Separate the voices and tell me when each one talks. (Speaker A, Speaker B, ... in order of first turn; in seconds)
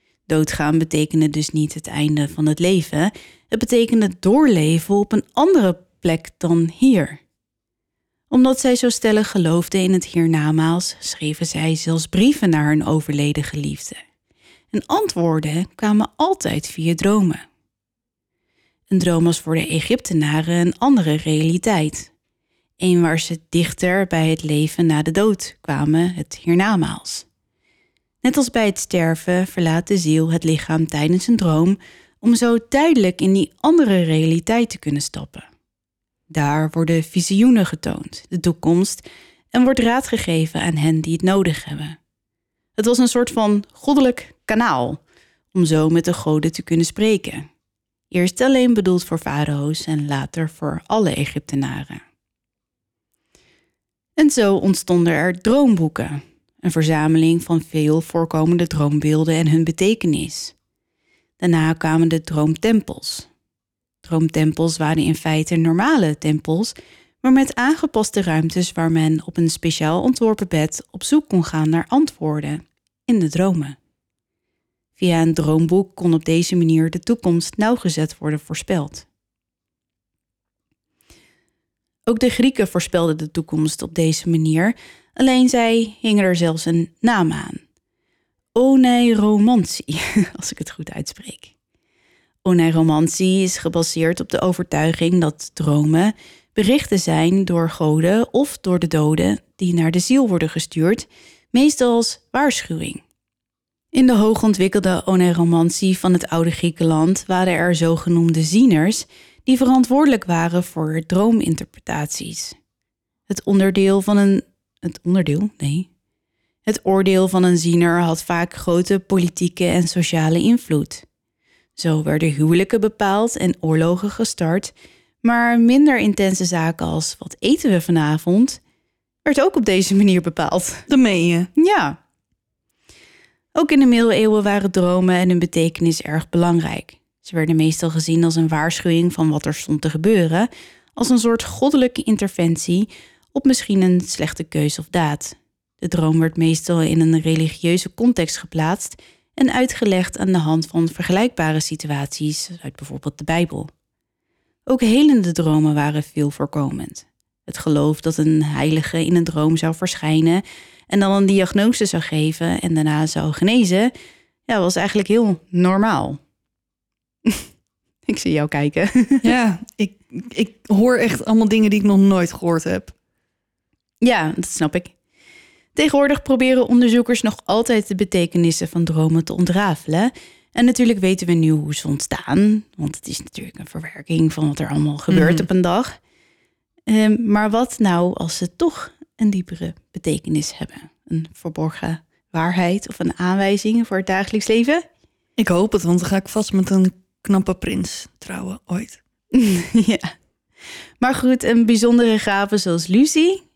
Speaker A: 0.3-7.2, 8.3-14.0, 14.7-17.4, 18.9-22.1, 22.8-27.3, 28.2-35.5, 36.3-42.0, 42.8-45.0, 45.5-47.5, 48.1-52.0, 54.2-60.5, 61.4-63.3, 64.0-73.8, 75.0-79.1, 82.1-87.6, 88.5-91.5, 92.4-103.0, 103.9-112.6, 113.3-115.9, 116.7-121.0, 121.8-128.6, 129.2-130.9, 131.6-132.0, 133.6-153.7, 154.7-163.9, 164.5-166.2, 168.1-169.3, 174.0-174.9, 175.8-186.0, 186.9-194.8, 199.3-200.1, 201.0-203.4
Speaker B: 130.9-131.5, 169.2-172.9, 185.1-185.5, 195.4-199.0